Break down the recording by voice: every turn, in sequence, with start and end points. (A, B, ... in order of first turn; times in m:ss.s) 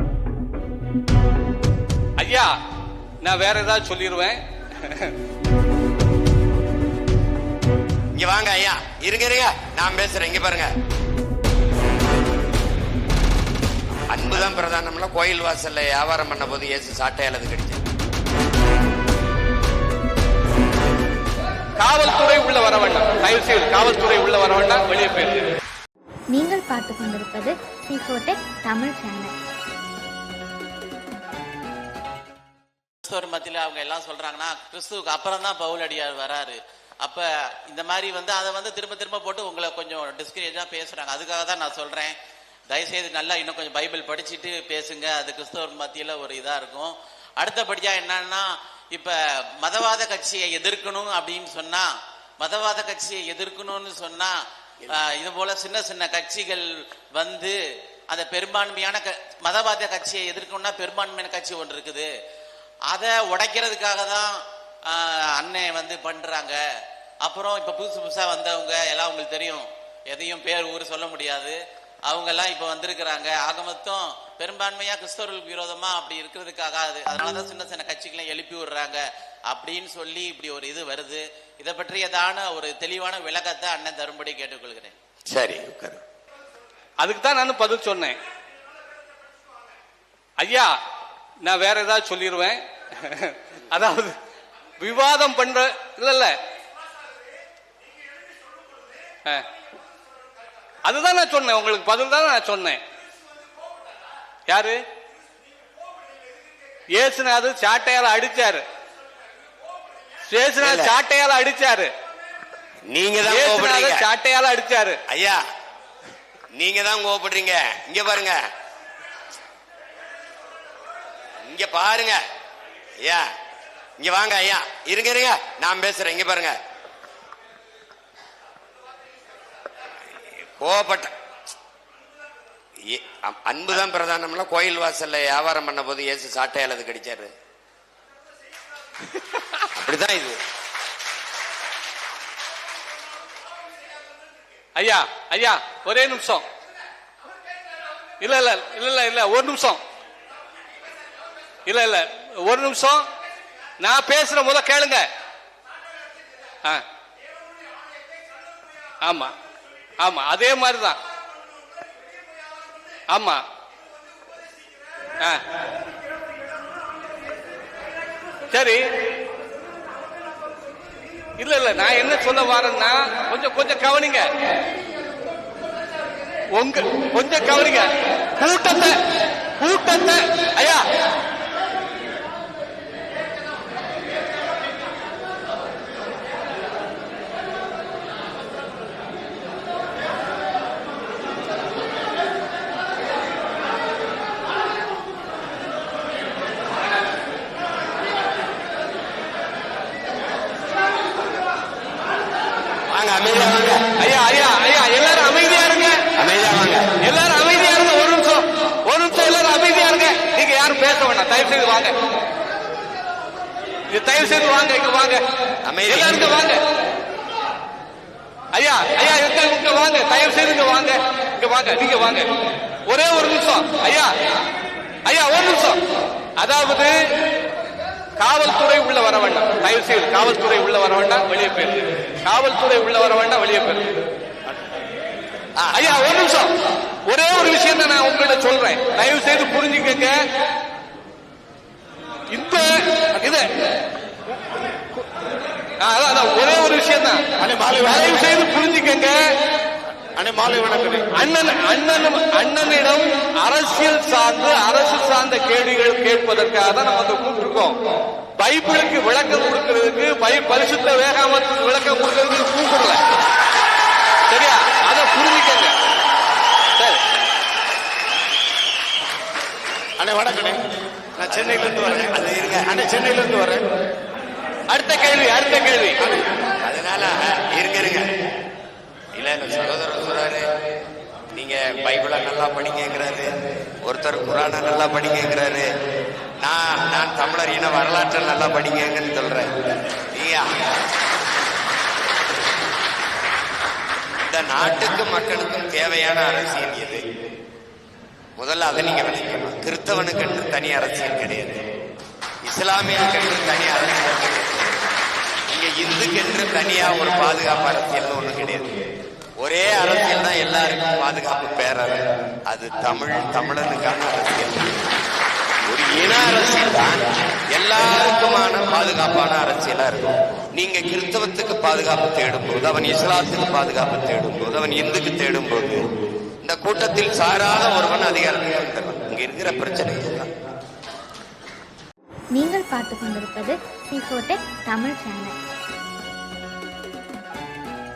0:02.2-0:02.5 A
0:03.2-0:05.1 A
0:08.1-0:10.7 B
0:14.1-0:17.8 B
0:21.8-0:25.5 A
0:26.3-0:29.3 C
0:33.0-0:42.1 D
0:42.7-0:54.3 D
0:54.9-0:57.6 D
0:58.1-1:02.1 D
1:02.9-1:06.6 D
1:07.2-1:24.9 D
1:25.3-1:26.0 B
1:27.0-1:28.2 A
1:30.4-1:30.7 A
1:31.4-1:34.1 A
1:34.8-1:36.4 A
1:40.8-1:42.8 A
1:44.5-1:44.8 A
1:46.9-1:48.6 A
1:50.3-1:51.9 A
1:50.6-1:50.9 B
1:52.9-1:54.1 B
1:53.3-1:55.0 A
1:55.1-1:55.4 B
1:56.5-1:58.4 B
2:01.4-2:02.2 B
2:03.0-2:03.3 B
2:04.0-2:06.6 B
2:10.1-2:11.1 B
2:12.8-2:17.3 B
2:19.3-2:19.6 A
2:19.7-2:20.4 B
2:24.8-2:26.4 A
2:28.2-2:29.8 A
2:31.6-2:33.1 A
2:33.8-2:35.1 A
2:39.0-2:39.3 A
2:40.0-2:41.0 A
2:43.1-2:43.4 A
2:48.5-2:48.8 A
2:51.4-2:54.3 A
2:56.5-2:59.0 A
2:59.6-3:00.9 A
3:22.9-3:23.8 B
3:24.0-3:26.0 A
3:26.2-3:26.9 B
3:27.0-3:31.9 A
3:33.9-3:35.2 A
3:35.6-3:36.3 B
3:35.9-3:36.6 A
3:38.5-3:42.3 A
3:42.8-3:44.1 A
3:45.0-3:45.8 A
3:46.4-3:46.9 A
3:48.2-3:53.9 A
3:55.6-3:55.9 B
3:55.7-3:56.5 A
3:57.1-4:00.2 A
4:02.3-4:03.5 A
4:05.8-4:07.2 A
4:07.4-4:08.2 E
4:07.8-4:09.2 A
4:10.2-4:11.0 E
4:11.1-4:17.8 A
4:18.4-4:23.0 A
4:24.3-4:25.7 A
4:26.8-4:27.0 A
4:30.0-4:30.6 E
4:31.2-4:31.9 E
4:31.2-4:32.7 B
4:32.6-4:33.7 E
4:34.7-4:36.0 A
4:36.6-4:38.1 B
4:39.1-4:40.5 B
4:41.3-4:43.3 B
4:43.8-4:45.7 B
4:46.4-4:49.5 B
4:50.1-4:50.7 B
4:54.2-4:57.0 B
4:58.4-5:01.6 B
5:02.4-5:04.6 B
5:05.5-5:08.8 B
5:09.4-5:14.7 B
5:15.7-5:25.8 B
5:26.4-5:30.3 B
5:32.3-5:35.3 C